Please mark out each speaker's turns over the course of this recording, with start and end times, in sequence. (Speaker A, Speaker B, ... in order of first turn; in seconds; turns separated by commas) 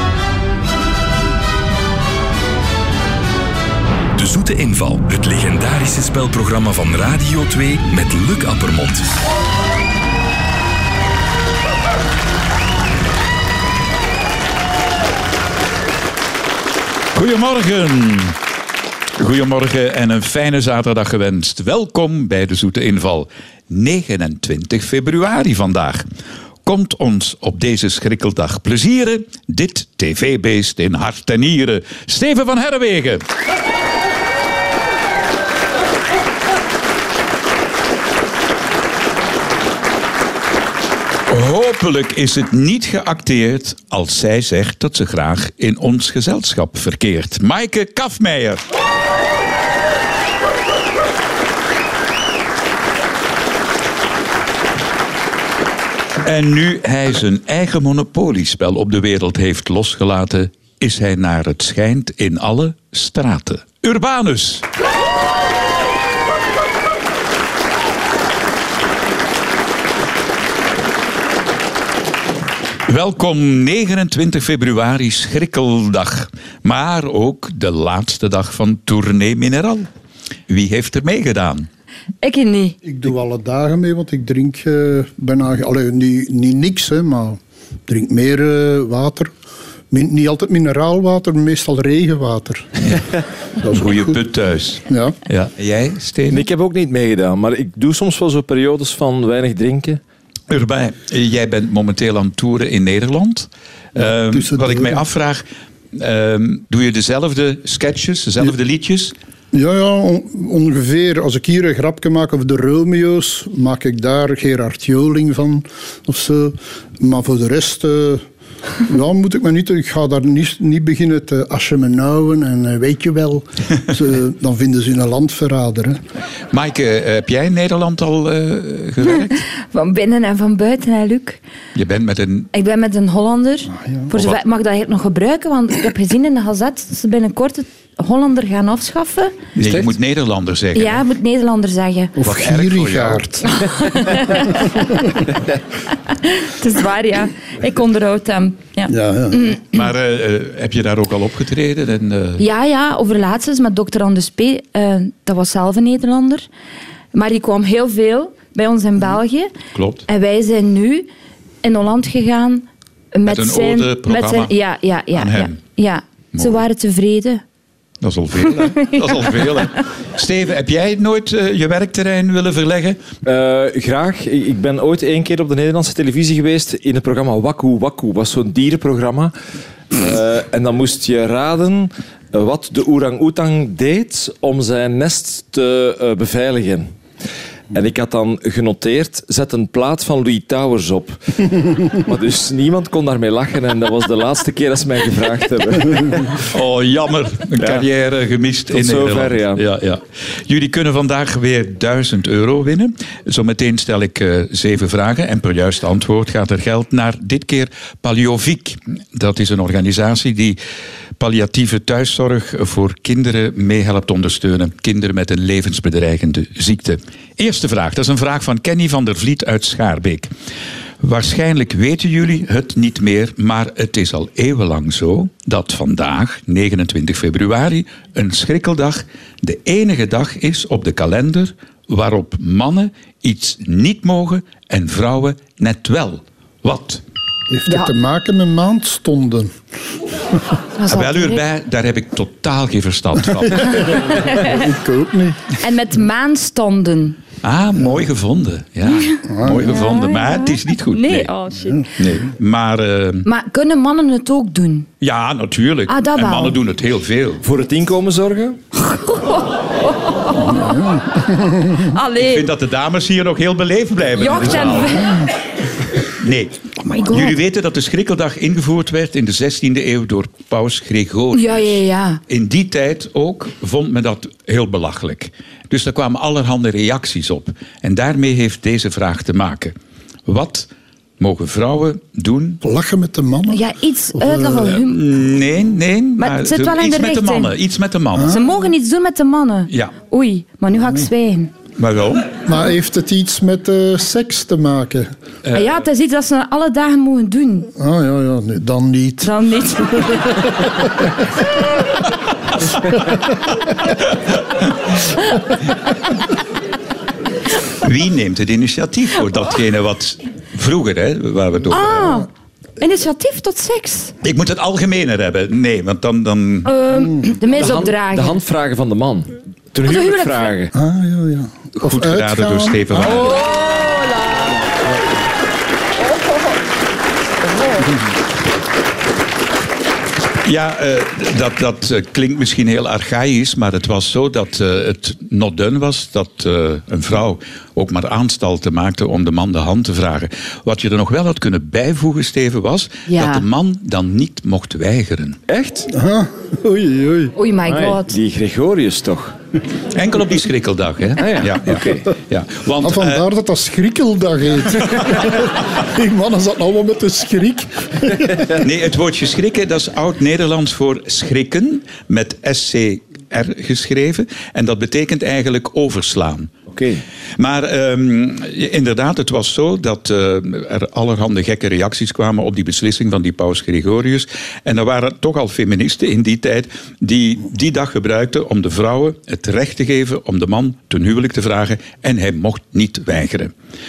Speaker A: 4.2-9.1, Speaker B: 17.1-18.4, Speaker B: 19.2-26.0, Speaker B: 26.6-33.2, Speaker B: 41.3-48.6, Speaker B: 56.2-64.6, Speaker B: 72.9-79.9, Speaker B: 80.5-81.7, Speaker C: 82.2-82.8, Speaker D: 82.8-89.3, Speaker D: 89.9-92.9, Speaker D: 93.6-94.2, Speaker B: 93.7-96.5, Speaker D: 94.9-95.2, Speaker E: 96.3-100.0, Speaker B: 100.5-109.1, Speaker D: 104.0-105.0, Speaker D: 109.5-118.2, Speaker D: 118.8-126.0, Speaker B: 126.5-129.4, Speaker C: 129.1-131.4, Speaker B: 131.7-132.5, Speaker C: 132.5-139.3, Speaker B: 134.1-134.4, Speaker B: 139.6-141.0, Speaker C: 140.7-142.1, Speaker D: 142.2-143.5, Speaker B: 142.2-143.3, Speaker C: 143.6-145.0, Speaker C: 146.1-149.7, Speaker D: 148.9-149.5, Speaker B: 149.7-152.4, Speaker C: 152.4-156.5, Speaker C: 157.1-159.5, Speaker B: 159.7-160.0, Speaker C: 160.1-161.1, Speaker C: 161.6-167.4, Speaker B: 163.2-164.5, Speaker B: 165.1-165.6, Speaker B: 166.3-166.6, Speaker B: 168.0-173.0, Speaker C: 168.6-169.6, Speaker E: 173.2-179.3, Speaker E: 179.9-186.9, Speaker E: 187.7-196.4, Speaker B: 196.5-210.6, Speaker E: 197.6-197.8, Speaker E: 198.7-199.6, Speaker B: 211.2-220.3, Speaker B: 221.0-237.0, Speaker D: 237.5-239.5, Speaker C: 237.7-237.9, Speaker C: 240.8-241.4, Speaker B: 240.9-244.0, Speaker D: 243.6-245.4, Speaker C: 243.9-244.6, Speaker C: 245.6-247.2, Speaker B: 247.4-251.3, Speaker D: 249.3-249.7, Speaker C: 249.6-251.9, Speaker B: 251.9-253.2, Speaker C: 253.2-254.9, Speaker B: 255.0-257.4, Speaker C: 255.9-256.6, Speaker E: 257.4-258.6, Speaker C: 258.7-260.7, Speaker D: 260.5-261.9, Speaker C: 261.8-262.5, Speaker B: 262.2-265.1, Speaker C: 264.2-265.2, Speaker B: 266.2-279.7, Speaker C: 266.8-267.4, Speaker C: 271.3-272.2, Speaker B: 280.2-280.7, Speaker B: 281.2-282.6, Speaker D: 282.6-283.6, Speaker C: 283.5-285.0, Speaker D: 284.1-284.8, Speaker B: 284.6-288.4, Speaker C: 286.2-287.5, Speaker D: 288.1-288.4, Speaker C: 288.3-291.5, Speaker B: 291.8-292.4, Speaker D: 292.4-295.1, Speaker C: 295.5-297.7, Speaker D: 297.8-299.3, Speaker C: 299.2-300.5, Speaker B: 304.6-304.9, Speaker B: 307.7-312.1, Speaker C: 311.7-314.1, Speaker B: 314.2-316.7, Speaker C: 316.6-318.4, Speaker E: 317.5-320.7, Speaker C: 319.9-320.5, Speaker D: 320.7-323.2, Speaker B: 321.8-323.4, Speaker C: 323.2-324.5, Speaker C: 327.6-327.8, Speaker B: 330.4-345.4, Speaker C: 343.1-343.4, Speaker E: 345.5-345.9, Speaker D: 345.9-347.3, Speaker C: 347.4-348.2, Speaker E: 347.6-349.3, Speaker B: 349.9-353.2, Speaker E: 351.2-352.1, Speaker D: 352.8-358.5, Speaker B: 358.6-366.5, Speaker E: 366.7-367.0, Speaker B: 367.4-383.5